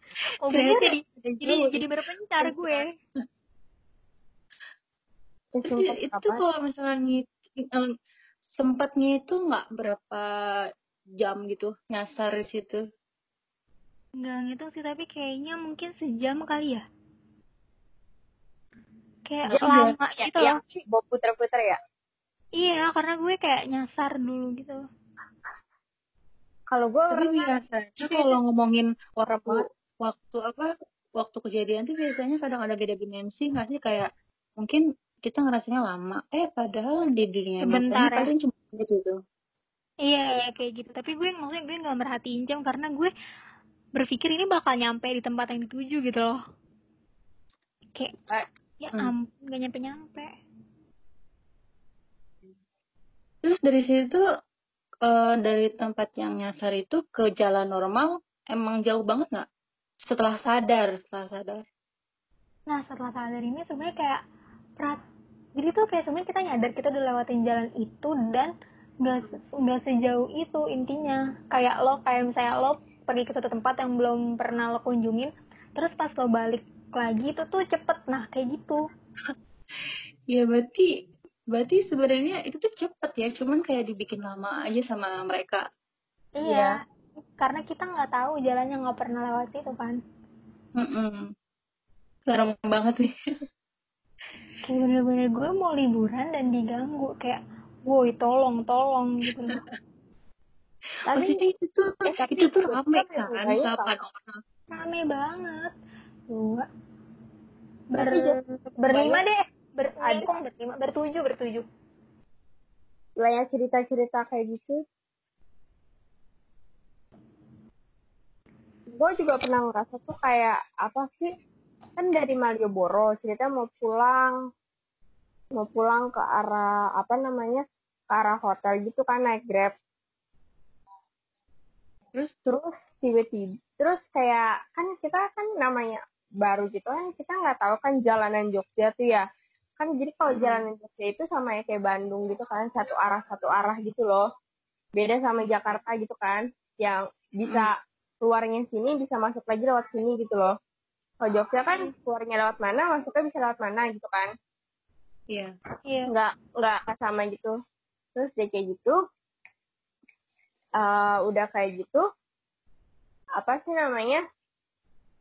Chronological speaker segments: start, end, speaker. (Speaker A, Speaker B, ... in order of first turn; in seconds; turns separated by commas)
Speaker A: 0.5-2.8, Speaker B: 0.5-1.9, Speaker B: 2.4-2.8, Speaker C: 5.5-6.4, Speaker B: 5.7-7.9, Speaker B: 8.5-10.3, Speaker B: 11.2-12.8, Speaker A: 14.2-16.8, Speaker A: 19.3-20.6, Speaker B: 19.5-19.9, Speaker C: 20.2-21.8, Speaker A: 22.6-24.8, Speaker C: 26.7-28.4, Speaker B: 27.1-39.2, Speaker C: 29.3-29.6, Speaker A: 37.6-38.3, Speaker A: 40.1-43.1, Speaker A: 44.0-46.4, Speaker A: 48.8-50.3, Speaker B: 53.4-54.2, Speaker B: 55.0-59.5, Speaker B: 60.0-61.6, Speaker A: 62.7-64.2, Speaker A: 65.6-68.5, Speaker A: 69.0-78.8, Speaker B: 80.3-80.9, Speaker B: 81.5-85.6, Speaker A: 86.4-86.8, Speaker C: 86.5-86.8, Speaker A: 87.4-90.0, Speaker B: 90.8-91.3, Speaker B: 92.3-93.1, Speaker A: 94.7-99.6, Speaker C: 101.1-101.4, Speaker B: 101.1-104.4, Speaker C: 102.1-103.9, Speaker A: 104.7-105.7, Speaker A: 106.3-106.7, Speaker A: 107.9-111.6, Speaker C: 108.0-108.4, Speaker C: 108.9-109.2, Speaker C: 110.0-110.3, Speaker C: 113.2-114.8, Speaker C: 118.9-121.3, Speaker C: 122.0-124.3, Speaker C: 125.5-129.7, Speaker C: 132.5-139.2, Speaker C: 139.8-144.2, Speaker B: 140.3-140.7, Speaker C: 145.0-150.5, Speaker C: 151.2-154.3, Speaker A: 151.7-151.9, Speaker C: 156.1-157.5, Speaker C: 158.2-159.0, Speaker C: 160.8-162.0, Speaker C: 163.4-164.2